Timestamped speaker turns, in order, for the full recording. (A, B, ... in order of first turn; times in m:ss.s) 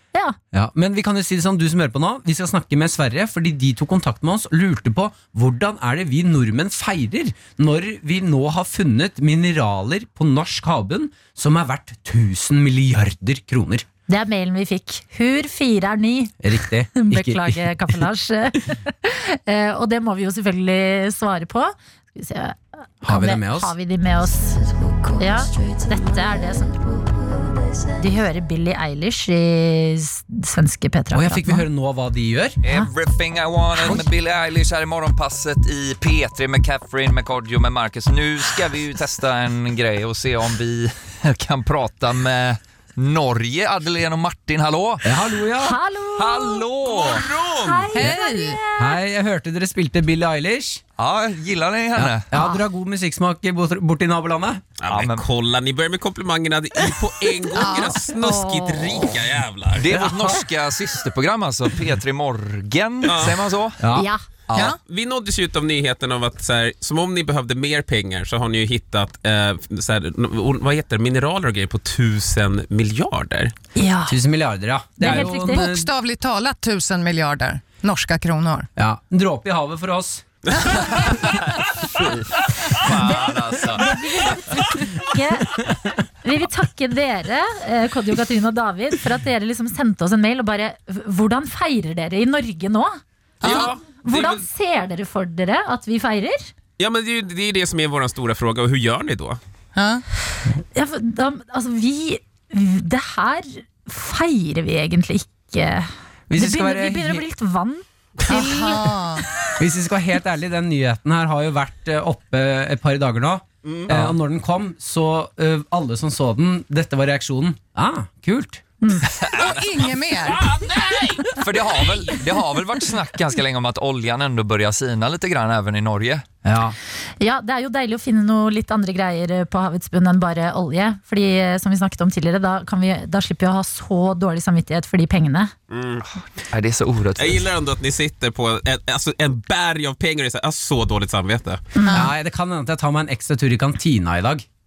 0:00.5-0:13.9 A
0:14.1-0:16.4 B
0:16.4-0:18.0 A
0:16.9-0:27.0 B
0:23.0-0:23.7 A
0:28.0-0:31.7 B
0:31.1-0:32.6 A
0:32.6-0:45.2 C
0:45.0-0:45.8 A
0:45.6-0:49.0 B
0:46.2-0:47.2 C
0:46.9-0:48.0 D
0:47.9-0:48.6 E
0:48.8-0:50.8 A
0:51.0-0:52.2 C
0:52.0-0:54.6 A
0:52.3-0:52.6 B
0:54.8-1:00.4 D
0:54.9-0:55.2 C
0:57.6-0:58.0 E
0:57.7-0:59.1 B
0:59.8-1:03.9 C
1:03.0-1:03.5 D
1:03.8-1:04.1 A
1:04.0-1:04.2 B
1:04.5-1:04.8 C
1:04.7-1:13.5 D
1:13.8-1:14.2 B
1:14.1-1:15.9 A
1:15.0-1:15.7 B
1:15.0-1:18.7 E
1:18.8-1:20.3 A
1:20.5-1:21.2 D
1:22.0-1:23.9 C
1:22.9-1:25.6 B
1:26.2-1:36.5 B
1:33.4-1:34.4 D
1:36.8-1:39.4 D
1:39.8-1:40.0 E
1:40.7-1:49.2 B
1:46.3-1:47.2 A
1:48.3-1:49.2 E
1:49.6-1:58.6 A
1:53.6-1:54.1 D
1:58.8-1:59.1 B
1:59.3-2:00.5 E
2:00.2-2:02.2 D
2:01.4-2:06.2 C
2:06.4-2:06.8 A
2:07.2-2:15.5 B
2:15.7-2:16.0 D
2:16.5-2:17.5 C
2:17.2-2:21.6 D
2:21.8-2:22.1 B
2:21.9-2:24.5 A